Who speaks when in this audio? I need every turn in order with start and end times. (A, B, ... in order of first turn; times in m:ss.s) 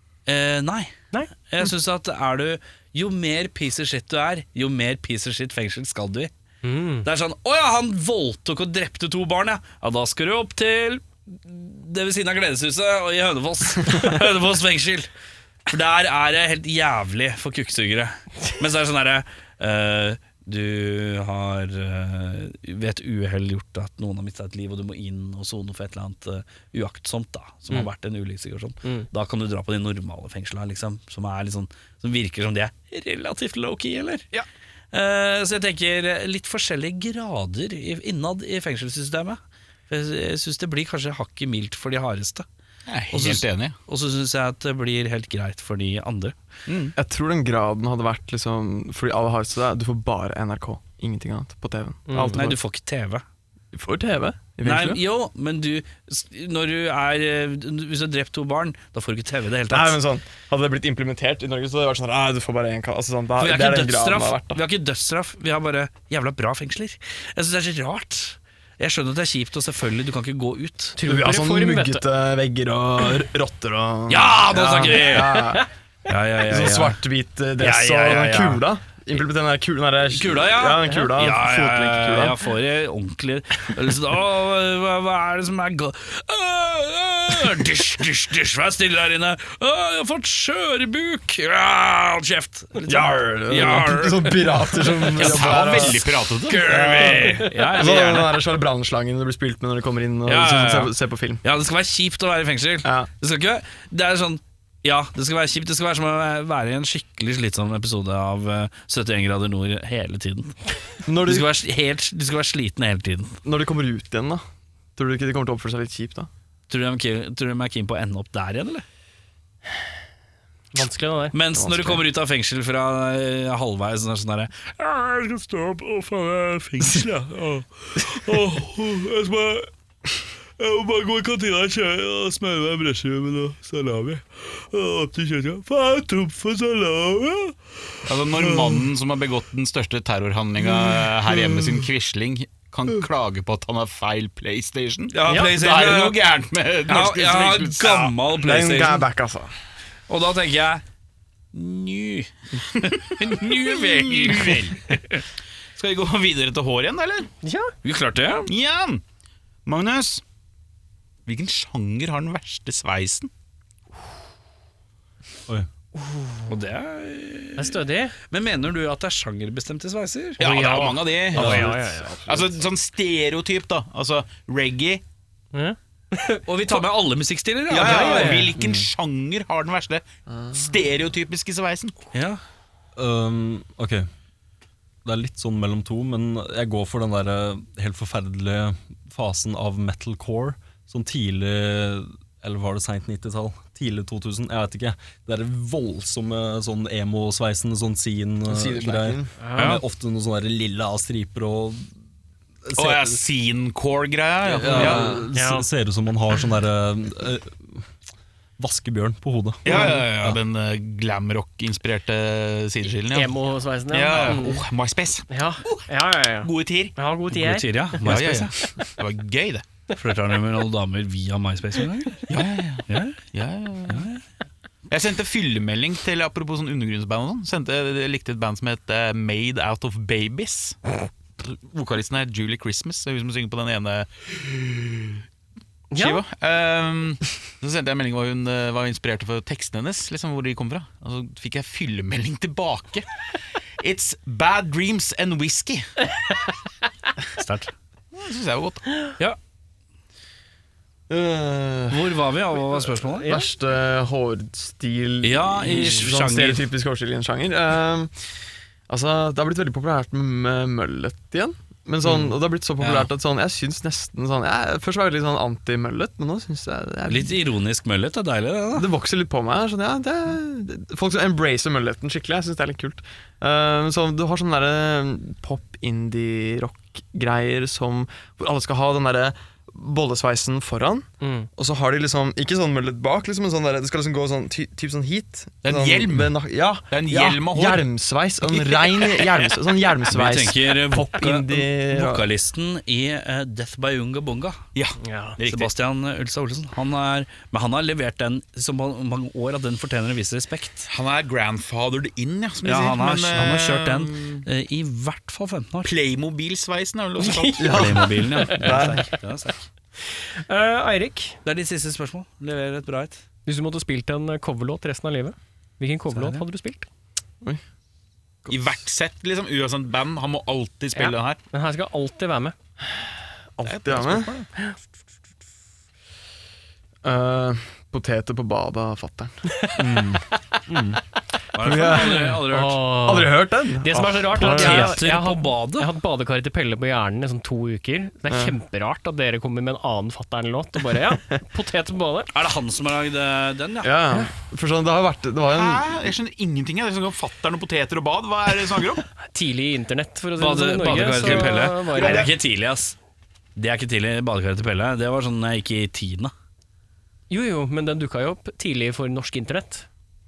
0:00.3-0:06.3 A
0:06.6-0:07.0 B
0:07.0-0:15.1 A
0:15.7-0:34.3 A
0:34.9-0:39.4 A
0:39.9-0:42.4 A
0:42.9-0:43.7 C
0:43.1-0:46.3 A
0:46.7-0:47.0 C
0:47.0-0:52.6 D
0:52.1-0:52.5 B
0:52.3-0:53.2 A
0:53.7-0:55.0 D
0:54.6-1:00.0 A
0:59.7-1:04.6 D
1:03.4-1:11.0 A
1:11.0-1:12.0 B
1:11.0-1:15.7 D
1:14.1-1:17.0 A
1:16.5-1:22.4 D
1:17.6-1:18.6 A
1:20.1-1:38.4 A
1:32.8-1:36.0 D
1:35.1-1:36.8 C
1:36.6-1:41.4 D
1:40.2-1:50.6 A
1:51.0-1:51.5 D
1:51.2-1:53.4 A
1:53.4-1:54.4 D
1:55.0-1:56.3 D
1:56.7-1:58.8 A
2:00.7-2:01.3 B
2:01.3-2:09.7 A
2:01.5-2:02.0 D
2:10.6-2:18.8 A
2:18.0-2:28.2 C
2:25.1-2:26.2 A
2:25.3-2:25.5 B
2:26.9-2:29.0 A
2:28.4-2:29.5 D
2:30.1-2:30.8 A
2:31.5-2:35.2 A
2:32.8-2:34.9 C
2:35.8-2:37.3 C
2:37.4-2:37.7 B
2:37.8-2:38.5 A
2:38.5-2:39.0 C
2:39.6-2:40.2 C
2:41.2-2:43.3 C
2:46.0-2:46.5 B
2:46.5-2:51.0 A
2:47.6-2:48.1 B
2:50.4-2:51.7 C
2:51.3-2:51.7 E
2:51.3-2:52.5 D
2:51.4-2:52.2 B
2:52.2-2:55.0 C
2:55.5-2:56.8 B
2:56.5-2:58.5 A
2:57.7-3:02.0 C
2:57.8-2:58.5 B
2:58.6-2:58.9 E
3:00.3-3:00.7 D
3:02.1-3:02.4 A
3:03.0-3:04.1 E
3:05.0-3:21.9 E
3:18.5-3:19.3 D
3:19.4-3:19.8 B
3:22.6-3:23.1 E
3:22.8-3:25.3 C
3:24.6-3:27.9 E
3:24.7-3:25.0 D
3:25.3-3:25.6 B
3:28.6-3:30.4 E
3:29.6-3:33.3 C
3:33.1-3:34.6 B
3:33.9-3:36.9 C
3:35.3-3:37.7 B
3:37.3-3:38.5 A
3:38.0-3:39.6 C
3:39.9-3:42.3 A
3:42.3-3:44.1 C
3:42.9-3:43.2 A
3:43.9-3:44.2 A
3:44.9-3:50.8 C
3:51.4-3:55.2 C
3:55.9-3:56.2 B
3:55.9-4:03.0 C
4:03.8-4:05.9 C
4:07.3-4:07.7 A
4:08.1-4:08.8 C
4:11.1-4:12.2 D
4:11.9-4:13.4 A
4:13.2-4:13.4 B
4:13.2-4:18.1 D
4:15.2-4:16.6 A
4:18.9-4:27.4 D
4:22.0-4:22.3 B
4:27.1-4:28.9 A
4:28.7-4:52.3 D
4:41.2-4:41.5 B
4:45.6-4:46.4 C
4:46.9-4:47.9 C
4:48.5-4:49.4 C
4:50.1-4:54.6 A
4:54.7-4:55.7 C
4:55.0-4:55.4 B
4:55.4-5:00.9 A
5:00.9-5:04.4 C
5:02.6-5:05.9 A
5:05.8-5:08.1 C
5:07.2-5:07.7 B
5:07.6-5:09.6 A
5:07.6-5:09.1 D
5:08.3-5:08.8 B
5:10.0-5:11.4 B
5:11.4-5:13.2 A
5:13.4-5:16.9 B
5:18.4-5:18.7 D
5:18.5-5:21.4 C
5:21.0-5:22.5 B
5:23.5-5:24.3 D
5:23.6-5:24.5 C
5:27.0-5:29.4 D
5:29.8-5:31.0 E
5:31.5-5:33.2 A
5:31.6-5:35.0 D
5:31.8-5:42.3 B
5:34.3-5:35.9 A
5:38.3-5:38.6 D
5:42.3-5:43.9 A
5:43.8-5:45.8 D
5:45.5-5:49.0 C
5:49.3-5:52.3 B
5:50.4-5:53.0 A
5:51.2-5:52.3 C
5:53.6-5:56.3 A
5:57.3-5:59.9 B